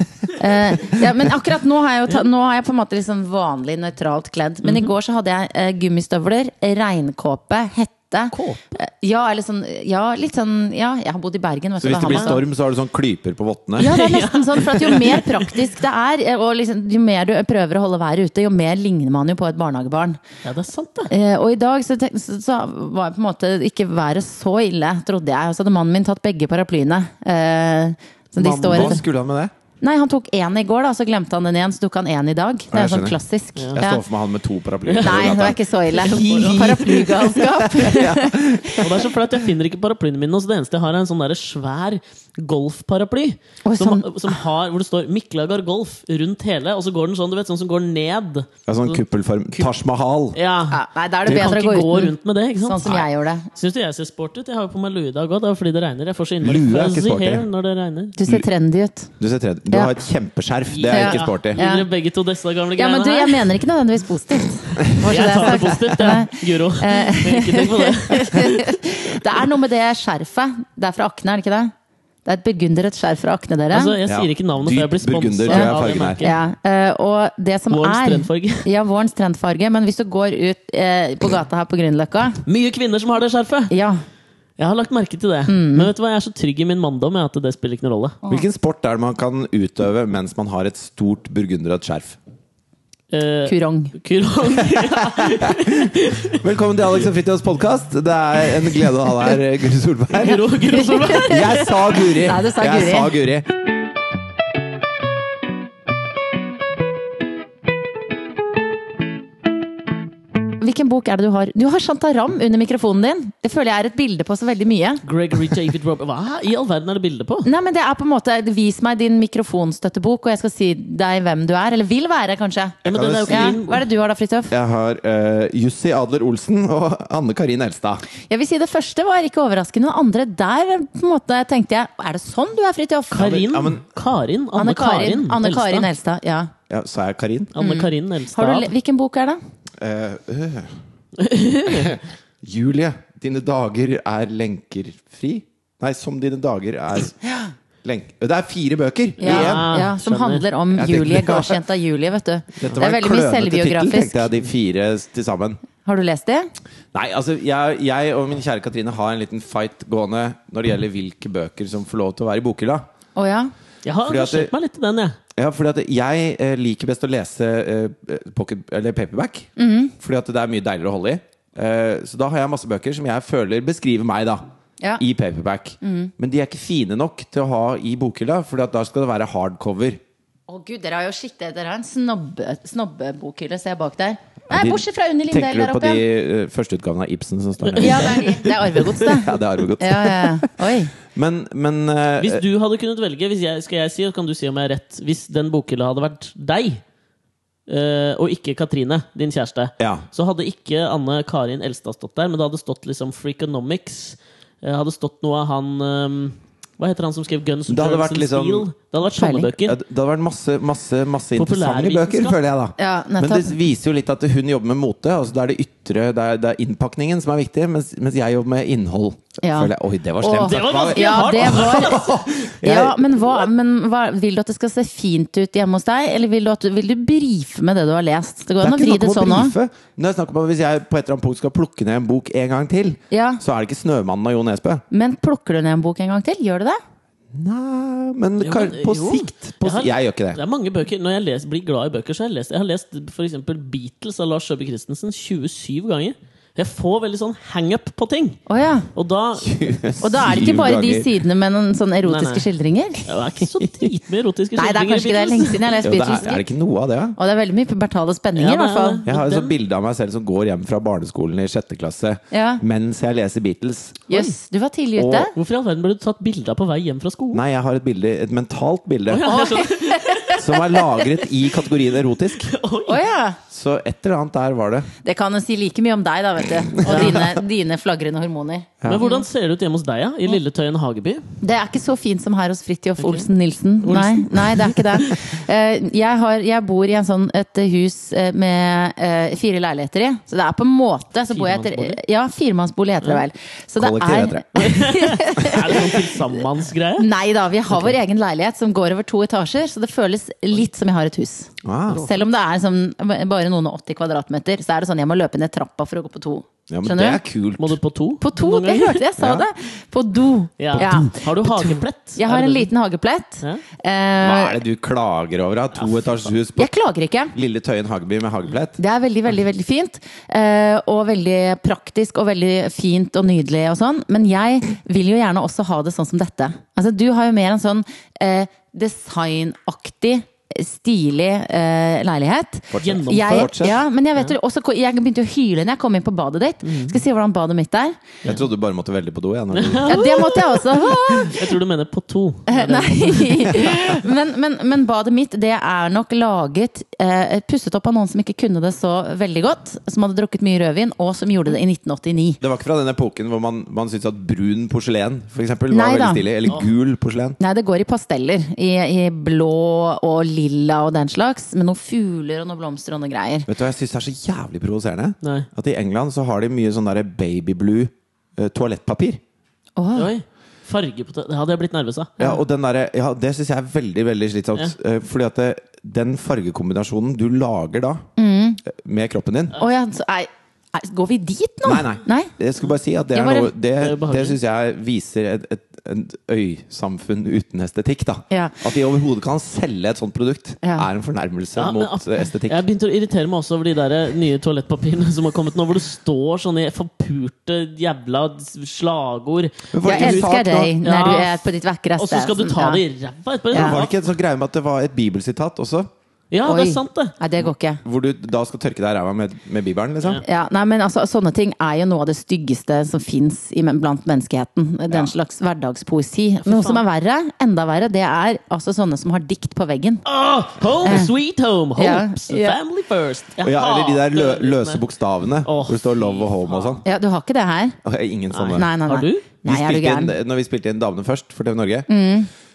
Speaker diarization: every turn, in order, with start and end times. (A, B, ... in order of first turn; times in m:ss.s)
0:00.3-0:12.4 A
0:04.6-0:04.9 B
0:08.3-0:08.6 B
0:11.8-0:14.0 C
0:12.1-0:12.4 B
0:13.8-0:20.2 A
0:13.8-0:15.4 B
0:20.4-0:21.1 B
0:21.1-0:29.0 A
0:28.4-0:29.0 B
0:28.6-0:29.5 C
0:29.8-0:34.0 A
0:32.7-0:33.2 C
0:33.8-0:35.6 C
0:34.8-0:37.4 B
0:35.0-0:38.9 A
0:36.3-0:39.1 C
0:38.8-0:49.0 B
0:43.6-0:44.4 A
0:48.7-0:50.4 C
0:50.3-0:58.2 B
0:50.7-0:53.5 A
0:51.3-0:51.5 C
0:56.4-0:57.5 C
0:58.2-0:59.1 A
0:59.2-1:01.6 C
1:00.7-1:03.6 B
1:00.9-1:01.9 A
1:02.8-1:11.7 A
1:05.0-1:08.8 B
1:12.2-1:14.0 A
1:13.7-1:16.4 B
1:14.1-1:16.2 C
1:15.5-1:22.4 A
1:17.7-1:18.7 B
1:22.5-1:23.7 B
1:23.7-1:24.0 A
1:24.6-1:28.2 B
1:25.5-1:25.9 A
1:28.3-1:32.2 C
1:33.1-1:36.4 B
1:33.5-1:33.9 A
1:34.7-1:40.5 C
1:40.1-1:41.8 B
1:40.6-1:43.1 A
1:41.2-1:43.5 C
1:50.6-1:55.0 A
1:55.0-1:57.5 B
1:57.4-2:04.6 A
2:02.8-2:03.6 C
2:02.8-2:03.9 B
2:04.5-2:08.0 C
2:08.3-2:13.4 A
2:13.1-2:15.9 B
2:13.2-2:13.8 C
2:14.6-2:16.5 A
2:16.7-2:17.6 C
2:17.6-2:18.7 B
2:17.6-2:19.4 A
2:19.8-2:20.8 C
2:21.2-2:22.0 B
2:21.7-2:27.2 C
2:27.2-2:27.5 A
2:27.8-2:29.7 C
2:29.2-2:34.3 A
2:29.2-2:30.5 B
2:30.7-2:31.6 C
2:32.6-2:35.6 C
2:35.8-2:36.5 A
2:36.9-2:42.8 C
2:43.2-2:43.5 A
2:43.8-2:45.2 B
2:44.0-2:44.5 C
2:45.4-2:54.4 C
2:49.6-2:49.9 A
2:55.0-3:00.0 C
2:55.8-2:56.1 A
3:00.5-3:06.0 A
3:04.5-3:08.2 C
3:07.7-3:08.5 B
3:07.8-3:10.9 A
3:09.0-3:12.4 C
3:12.2-3:16.8 B
3:17.7-3:29.8 B
3:19.8-3:20.1 C
3:27.7-3:28.7 C
3:29.1-3:29.5 A
3:29.6-3:43.2 C
3:31.4-3:32.4 B
3:32.8-3:33.6 A
3:39.4-3:42.1 A
3:40.3-3:42.1 B
3:42.6-3:49.6 A
3:48.6-3:54.8 C
3:53.1-3:53.4 A
3:54.9-3:56.8 A
3:57.3-4:00.4 C
3:58.4-4:08.4 B
4:08.5-4:08.9 A
4:09.0-4:09.6 B
4:09.4-4:11.2 C
4:10.0-4:13.1 A
4:12.0-4:12.5 B
4:13.1-4:15.9 B
4:13.6-4:13.9 C
4:14.6-4:16.4 A
4:15.8-4:17.2 C
4:17.2-4:19.0 A
4:18.4-4:19.6 B
4:19.1-4:24.1 C
4:22.3-4:22.6 A
4:24.1-4:25.3 A
4:25.0-4:25.3 C
4:25.4-4:27.4 B
4:27.3-4:29.3 C
4:29.1-4:30.6 B
4:29.2-4:30.4 A
4:30.4-4:32.5 C
4:32.4-4:33.0 B
4:32.9-4:33.4 A
4:33.5-4:34.9 C
4:35.0-4:39.2 A
4:36.8-4:37.4 C
4:36.9-4:37.2 B
4:38.8-4:41.3 B
4:41.4-4:56.1 A
4:43.0-4:43.3 B
4:43.8-4:45.1 B
4:51.3-4:52.0 B
4:53.8-4:54.5 C
4:54.6-4:57.1 B
4:57.0-5:07.2 A
5:01.6-5:02.1 C
5:06.7-5:07.8 C
5:07.6-5:09.0 B
5:08.2-5:14.6 A
5:09.2-5:09.5 C
5:10.6-5:12.7 B
5:10.8-5:11.0 C
5:14.2-5:16.7 C
5:15.8-5:16.3 B
5:16.6-5:17.3 A
5:17.3-5:18.8 C
5:18.8-5:38.1 A
5:32.7-5:33.8 C
5:32.8-5:33.5 B
5:36.6-5:37.0 B
5:38.2-5:40.0 C
5:39.5-5:44.0 B
5:39.9-5:41.5 A
5:42.5-5:52.4 A
5:52.4-5:57.4 C
5:55.7-5:56.3 A
5:57.4-6:03.5 A
6:03.5-6:09.2 C
6:05.2-6:05.5 B
6:09.8-6:10.1 A
6:10.0-6:12.2 B
6:12.2-6:18.0 C
6:18.2-6:18.6 A
6:18.6-6:19.6 C
6:19.6-6:22.3 A
6:21.6-6:32.6 C
6:23.1-6:23.5 A
6:23.8-6:24.4 B
6:28.3-6:28.6 A
6:30.6-6:30.9 A
6:31.6-6:44.0 B
6:39.7-6:40.8 C
6:39.8-6:42.8 A
6:43.5-6:43.8 A
6:43.5-6:45.9 C
6:46.3-6:47.2 B
6:46.4-6:47.8 A
6:47.4-6:50.2 C
6:50.2-7:00.0 A
6:56.4-6:56.8 B
7:00.0-7:04.8 B
7:00.8-7:01.1 A
7:01.8-7:02.6 A
7:03.4-7:06.8 C
7:05.4-7:06.8 B
7:06.8-7:07.8 A
7:07.8-7:08.7 C
7:08.3-7:09.2 B
7:08.5-7:10.1 A
7:09.4-7:11.9 C
7:11.9-7:12.3 A